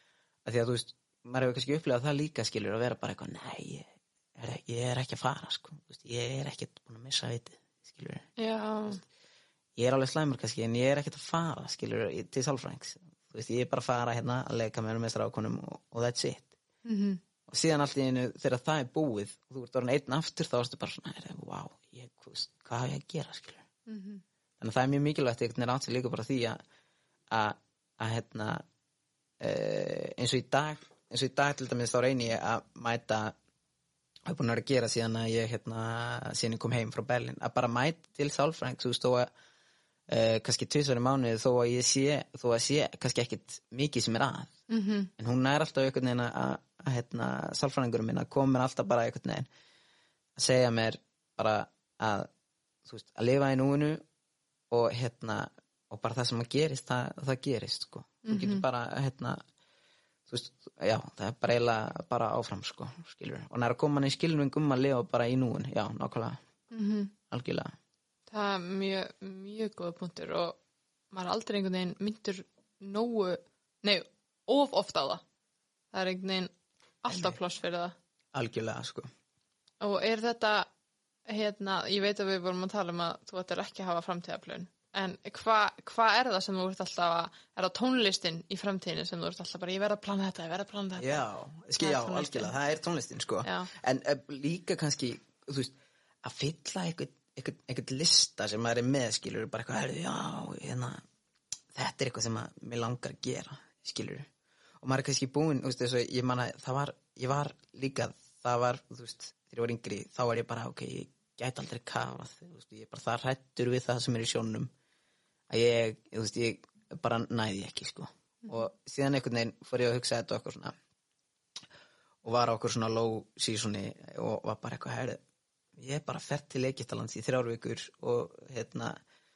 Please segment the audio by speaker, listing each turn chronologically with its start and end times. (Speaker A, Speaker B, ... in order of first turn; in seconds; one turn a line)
Speaker A: 0.4-8.3
Speaker B: 8.4-9.0
Speaker A: 9.8-16.5
Speaker B: 16.8-17.2
Speaker A: 17.5-23.6
Speaker B: 23.9-24.2
Speaker A: 24.6-26.6
Speaker A: 27.3-28.6
Speaker A: 29.4-33.3
Speaker A: 34.3-39.3
Speaker A: 40.1-44.5
Speaker B: 44.7-45.1
Speaker A: 45.2-49.5
Speaker A: 50.4-52.3
Speaker A: 52.9-54.0
Speaker A: 54.7-59.4
Speaker B: 58.2-58.6
Speaker A: 60.3-66.4
Speaker B: 66.7-67.1
Speaker A: 67.3-67.7
Speaker B: 68.3-70.6
Speaker B: 71.1-75.2
Speaker B: 75.9-76.5
Speaker B: 77.0-77.9
Speaker A: 77.1-77.4
Speaker A: 78.3-79.1
Speaker B: 79.8-80.7
Speaker B: 81.2-91.2
Speaker A: 91.0-101.0
Speaker B: 91.8-92.5
Speaker B: 93.4-93.7
Speaker A: 101.7-104.2
Speaker A: 104.8-114.7
Speaker A: 115.5-120.7
Speaker A: 122.2-125.2
Speaker A: 125.8-129.0